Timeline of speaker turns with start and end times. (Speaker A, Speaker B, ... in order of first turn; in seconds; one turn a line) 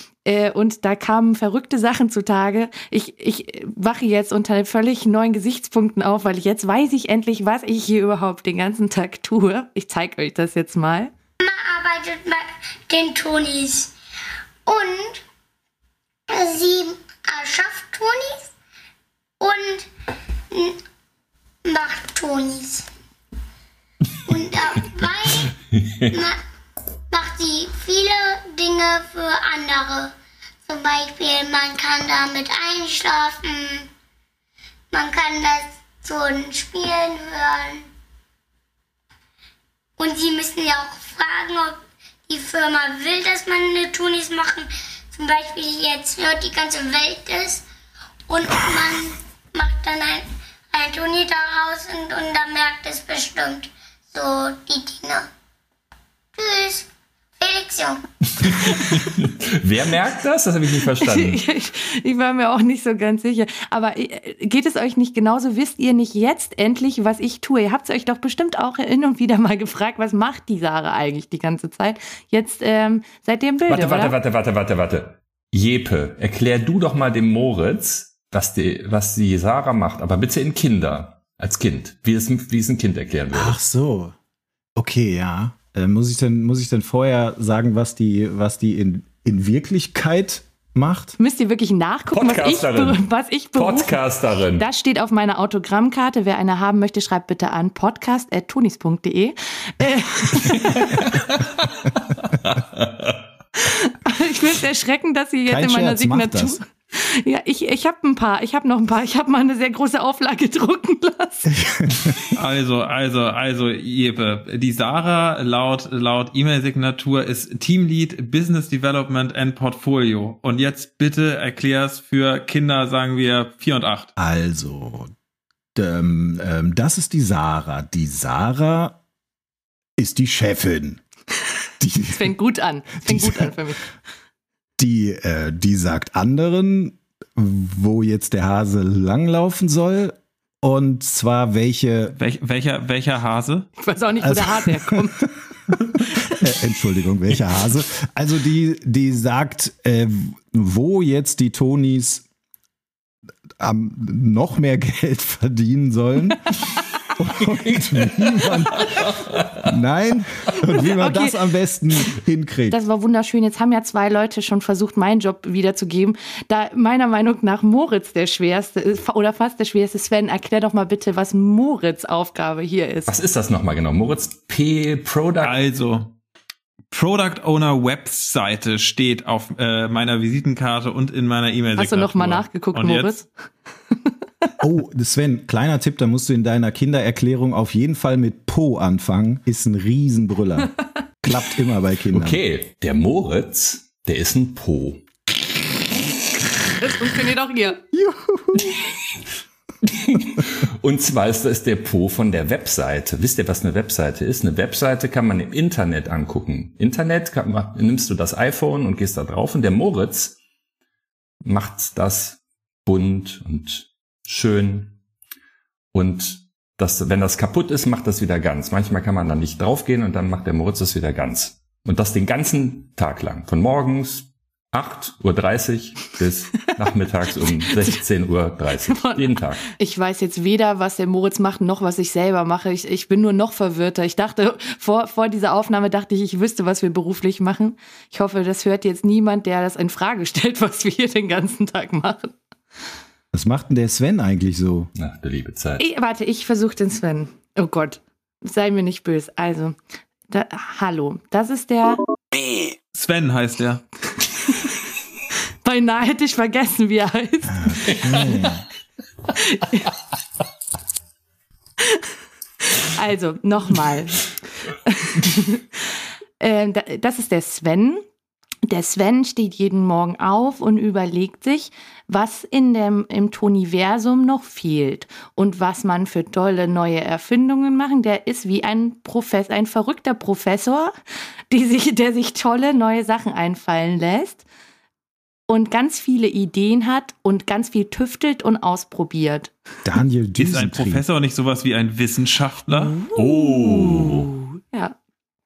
Speaker A: 0.2-11.1
Speaker B: 11.4-13.9
Speaker B: 14.7-15.2
Speaker B: 16.3-18.5
Speaker B: 19.4-19.9
Speaker B: 20.5-20.8
Speaker B: 21.6-22.9
Speaker B: 24.2-25.5
Speaker B: 26.1-26.4
Speaker B: 27.1-30.1
Speaker B: 30.7-33.9
Speaker B: 34.9-37.9
Speaker B: 40.0-47.6
Speaker B: 48.3-55.2
Speaker B: 56.4-56.9
Speaker B: 57.4-58.0
Speaker C: 58.4-61.4
Speaker A: 61.0-74.1
Speaker C: 73.7-83.6
Speaker D: 83.3-84.1
Speaker D: 84.8-91.2
Speaker A: 91.2-94.0
Speaker C: 92.1-93.0
Speaker C: 93.5-94.6
Speaker A: 94.5-100.9
Speaker C: 100.9-101.2
Speaker C: 102.4-103.2
Speaker A: 103.6-111.5
Speaker D: 105.5-106.6
Speaker D: 111.5-112.3
Speaker E: 112.3-124.1
Speaker D: 124.2-125.1
Speaker D: 125.7-129.0
Speaker D: 130.0-131.0
Speaker D: 131.8-132.3
Speaker A: 132.1-133.8
Speaker D: 133.0-133.5
Speaker D: 134.8-142.1
Speaker E: 142.2-143.7
Speaker A: 143.8-145.2
Speaker D: 144.2-145.0
Speaker D: 146.4-152.2
Speaker D: 153.6-162.8
Speaker A: 160.9-161.3
Speaker A: 162.7-173.1
Speaker C: 173.1-175.6
Speaker E: 175.4-176.1
Speaker E: 176.9-183.1
Speaker A: 181.8-183.3
Speaker D: 184.6-192.4
Speaker C: 192.1-195.0
Speaker A: 196.8-197.8
Speaker D: 197.9-198.7
Speaker C: 199.8-210.3
Speaker C: 211.4-214.9
Speaker C: 215.9-229.7
Speaker A: 228.9-242.3
Speaker D: 243.3-244.9
Speaker C: 244.9-245.8
Speaker A: 245.8-249.8
Speaker A: 250.3-252.0
Speaker E: 252.9-253.8
Speaker A: 255.6-258.2
Speaker D: 257.5-258.6
Speaker A: 259.3-259.9
Speaker A: 262.8-268.0
Speaker A: 268.7-280.9
Speaker A: 281.5-284.4
Speaker A: 285.5-289.5
Speaker D: 289.8-291.0
Speaker E: 290.4-292.9
Speaker A: 292.8-294.9
Speaker C: 293.1-294.3